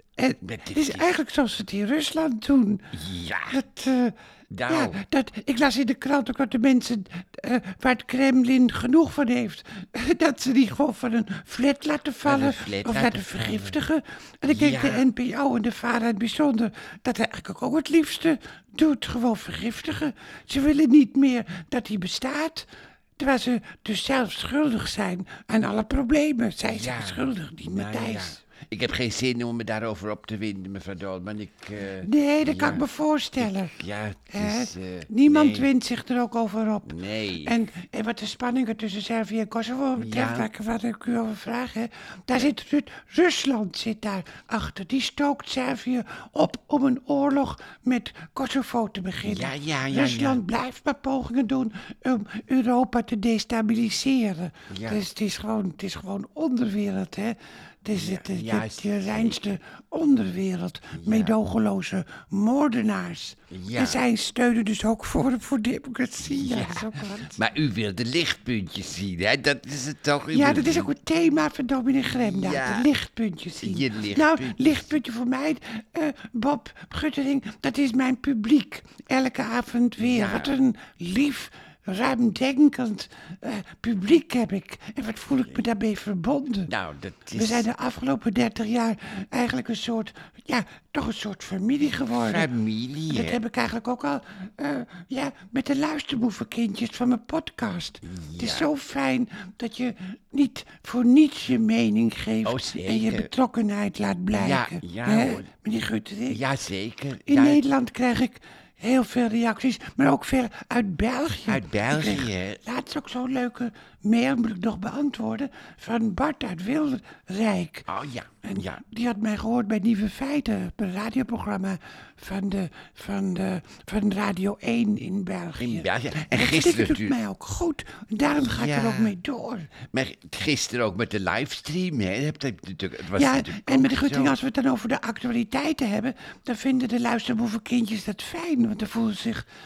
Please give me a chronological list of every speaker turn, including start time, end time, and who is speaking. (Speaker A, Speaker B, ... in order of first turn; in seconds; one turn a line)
Speaker A: 0.2-2.9
Speaker B: 0.4-1.1
Speaker B: 2.9-3.6
Speaker A: 3.5-4.2
Speaker B: 4.5-5.0
Speaker A: 4.7-28.4
Speaker B: 12.2-13.8
Speaker B: 14.5-15.1
Speaker B: 26.6-32.9
Speaker A: 32.0-33.8
Speaker B: 33.4-35.7
Speaker A: 34.3-67.4
Speaker B: 36.9-37.6
Speaker B: 40.0-40.5
Speaker B: 49.2-50.4
Speaker B: 54.7-55.0
Speaker B: 57.9-59.4
Speaker B: 60.9-61.3
Speaker B: 63.5-64.0
Speaker B: 66.2-70.9
Speaker A: 70.3-86.7
Speaker B: 72.1-72.9
Speaker B: 73.6-74.8
Speaker B: 80.0-80.6
Speaker B: 86.7-87.7
Speaker A: 87.3-92.5
Speaker B: 92.1-93.4
Speaker A: 93.1-106.4
Speaker B: 98.0-98.7
Speaker B: 102.4-103.3
Speaker B: 104.3-105.5
Speaker B: 106.3-107.6
Speaker A: 107.3-117.9
Speaker B: 111.4-112.6
Speaker B: 117.9-118.8
Speaker A: 118.4-129.7
Speaker B: 125.6-127.2
Speaker B: 128.4-129.2
Speaker B: 129.9-134.3
Speaker A: 133.2-139.5